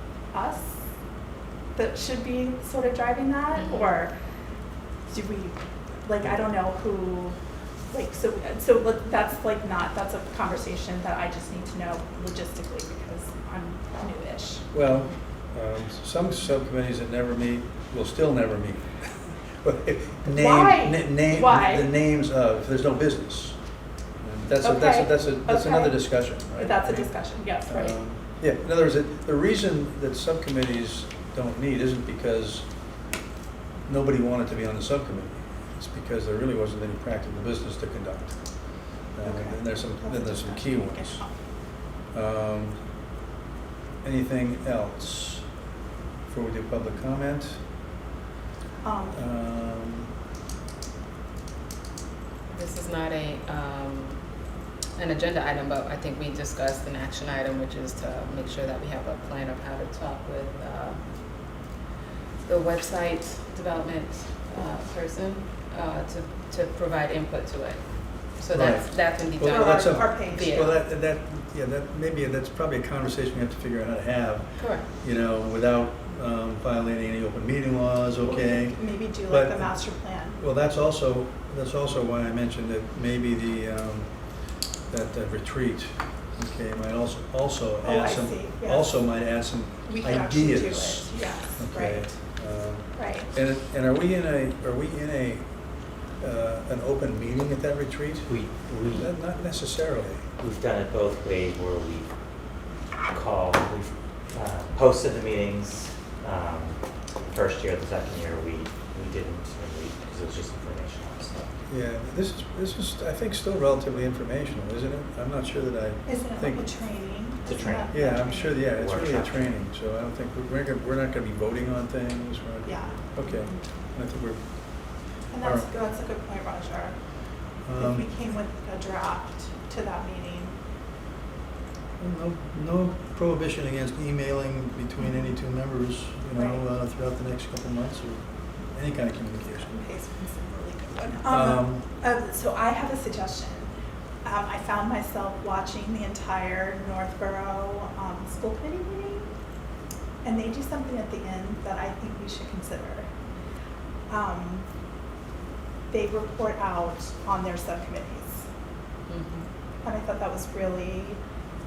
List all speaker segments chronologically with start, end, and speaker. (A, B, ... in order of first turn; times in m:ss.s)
0:00.3-0:00.8 A
0:01.8-0:04.2 A
0:03.6-0:04.0 B
0:05.1-0:07.4 A
0:07.9-0:14.7 A
0:14.7-0:32.9 C
0:20.3-0:21.9 A
0:24.6-0:28.0 A
0:33.9-0:41.5 C
0:39.2-0:41.3 A
0:42.1-0:42.9 C
0:44.0-0:45.6 C
0:46.2-0:47.6 C
0:48.8-0:49.2 A
0:49.1-0:50.1 C
0:52.5-1:01.0 B
1:02.4-1:10.8 B
1:08.5-1:40.3 C
1:09.4-1:10.6 A
1:14.6-1:14.9 B
1:18.2-1:20.4 A
1:27.8-1:28.9 A
1:29.9-1:32.2 A
1:33.0-1:33.3 A
1:38.2-1:39.1 D
1:40.4-1:42.1 D
1:43.1-1:51.5 D
1:51.7-1:57.2 C
1:56.1-1:58.6 A
1:57.4-1:58.0 D
1:57.9-2:05.7 C
1:58.7-1:59.6 D
2:02.6-2:03.7 A
2:05.3-2:07.0 A
2:07.6-2:08.1 C
2:07.8-2:10.6 A
2:12.0-2:19.7 C
2:16.4-2:16.7 A
2:19.5-2:23.7 A
2:21.1-2:21.9 C
2:24.2-2:29.3 A
2:30.2-2:33.1 A
2:34.1-2:34.7 A
2:35.9-2:38.4 A
2:39.1-2:39.5 B
2:39.8-2:41.2 A